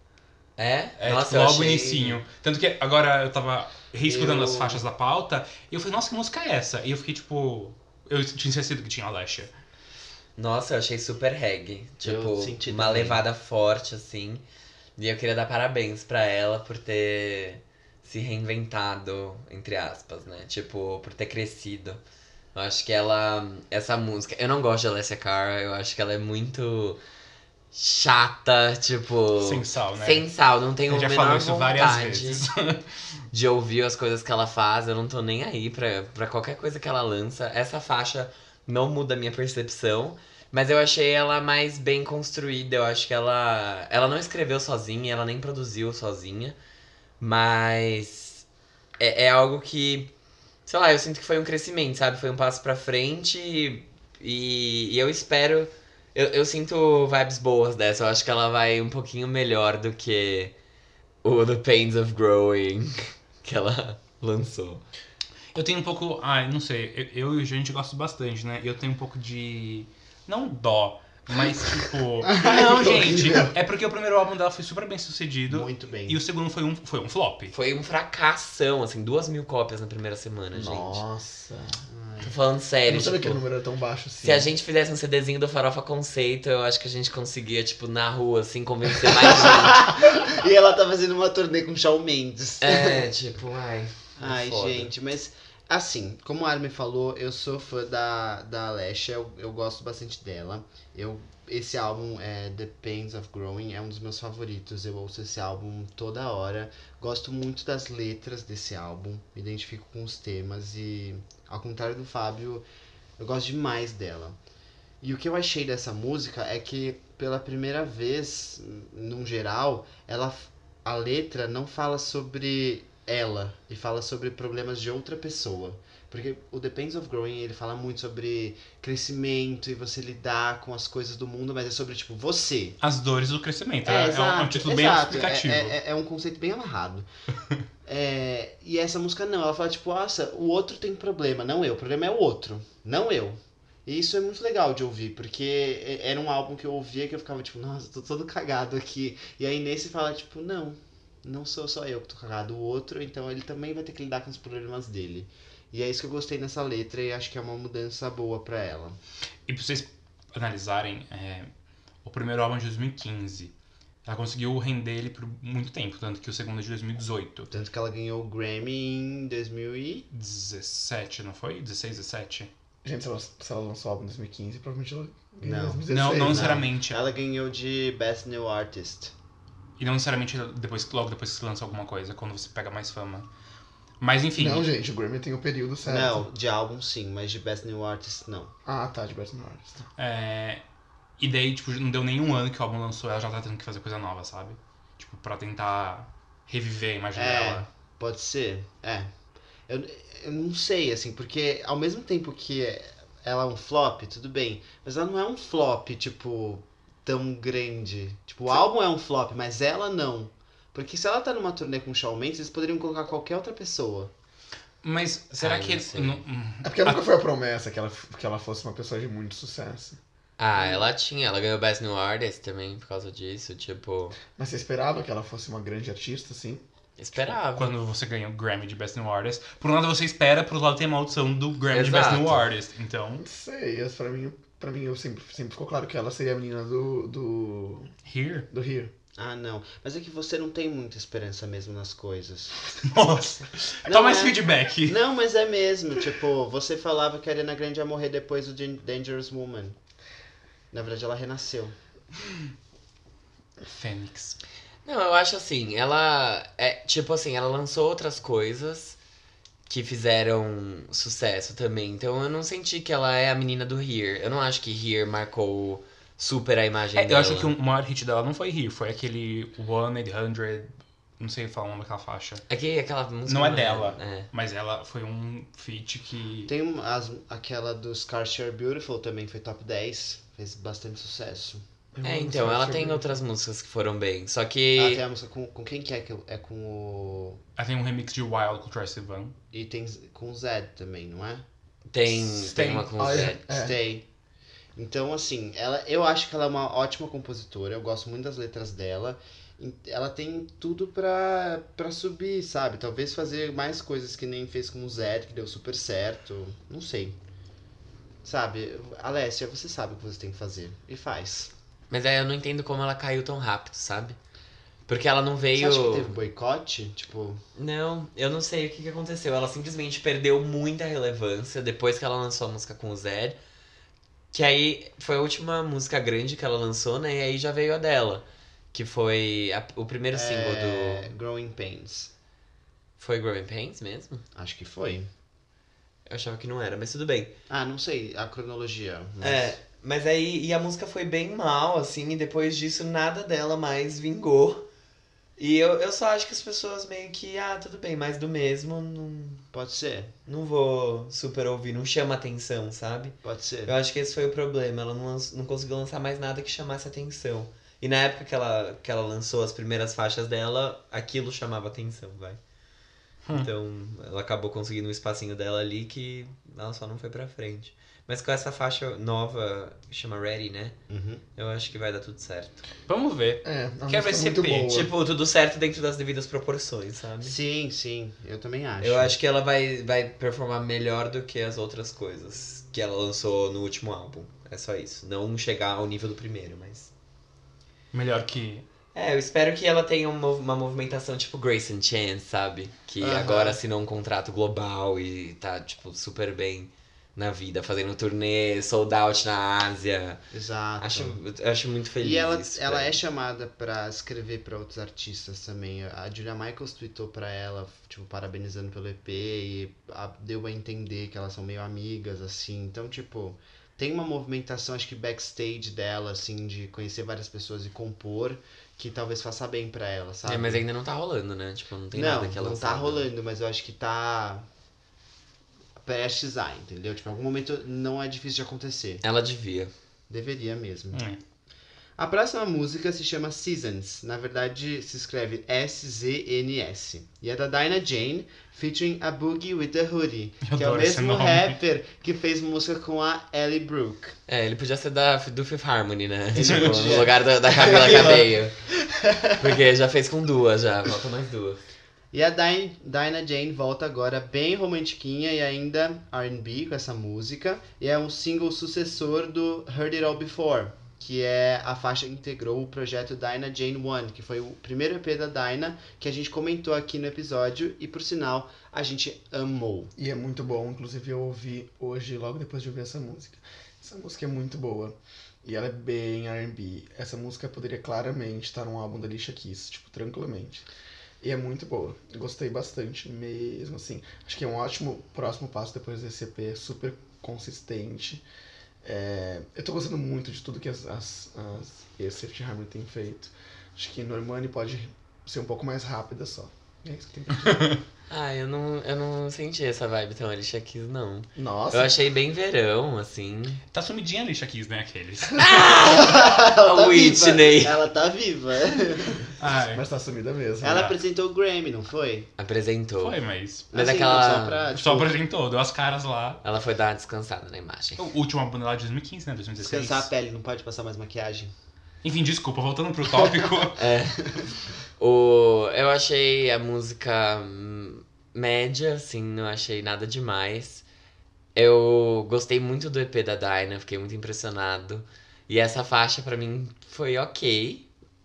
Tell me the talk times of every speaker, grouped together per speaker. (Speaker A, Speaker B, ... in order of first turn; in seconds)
Speaker A: 0.6-2.2, 10.4-14.4, 15.0-22.0, 22.6-27.0, 27.7-32.5, 33.3-46.6, 47.2-48.5, 49.0-50.1, 50.7-60.5, 61.2-64.8, 77.5-81.0, 82.2-83.4, 84.2-89.9, 92.6-94.9, 215.4-216.2, 220.4-224.2, 227.0-227.7, 231.7-232.5, 254.8-259.0, 259.7-267.5, 272.5-274.3, 282.0-285.0, 291.9-293.4, 311.9-314.2, 314.9-316.1, 317.6-323.4, 324.3-331.1, 333.0-334.2, 336.1-337.3, 339.2-344.7, 345.4-349.4, 350.3-362.4, 363.3-370.8, 371.4-372.6, 374.7-377.4, 378.8-386.9, 388.9-400.2, 400.8-402.9, 420.2-423.1, 429.0-429.7, 444.3-448.6, 449.4-451.6, 498.1-503.6, 505.4-507.8, 512.4-513.2, 513.7-514.7, 516.4-518.0, 523.8-524.3, 525.0-530.9, 531.5-537.9
Speaker B: 1.0-9.5, 29.4-30.3, 30.9-32.8, 65.5-77.5, 132.8-135.8, 159.5-161.5, 162.0-163.5, 164.1-167.5, 170.1-172.5, 175.9-177.1, 179.8-183.3, 184.0-184.7, 190.0-190.6, 191.2-197.7, 214.8-217.1, 227.6-233.2, 238.1-238.5, 242.8-245.0, 253.7-254.4, 266.9-272.4, 273.3-276.5, 287.6-289.4, 292.3-292.9, 372.9-374.8, 387.9-388.6, 430.9-431.2, 440.4-441.6, 446.4-447.1, 497.4-497.8, 503.7-505.7, 509.4-509.8, 513.0-513.7, 514.7-516.4, 518.0-520.1, 522.0-523.8
Speaker C: 4.0-4.8, 12.0-13.2, 72.3-72.7, 75.5-76.2, 81.9-82.3, 89.1-93.1, 94.2-112.7, 113.2-114.4, 115.0-132.8, 133.8-137.1, 137.9-159.0, 167.5-170.1, 175.4-179.1, 185.9-188.5, 197.2-199.1, 199.7-214.1, 239.2-242.6, 243.9-249.8, 250.7-251.8, 276.5-281.6, 284.8-287.4, 289.5-291.4, 293.4-294.1, 294.8-307.2, 308.2-311.5, 315.6-317.4, 330.1-332.1, 334.4-335.1, 337.5-339.6, 349.5-350.1, 353.2-353.7, 370.9-371.2, 377.2-379.1, 393.0-393.6, 400.3-401.2, 402.0-420.6, 421.9-424.4, 425.8-429.0, 430.1-431.0, 432.0-444.2, 446.3-449.4, 452.1-469.9, 505.9-509.3, 510.6-512.3, 513.7-515.2, 519.6-521.5
Speaker D: 72.4-73.5, 80.5-81.8, 82.9-84.5, 172.8-176.7, 184.4-186.3, 188.7-189.9, 216.6-220.0, 224.3-226.6, 233.2-237.9, 238.5-238.9, 281.9-283.1, 292.9-293.8, 373.4-374.9, 470.0-480.6, 481.2-488.2, 488.8-497.8, 501.4-501.9, 509.7-510.9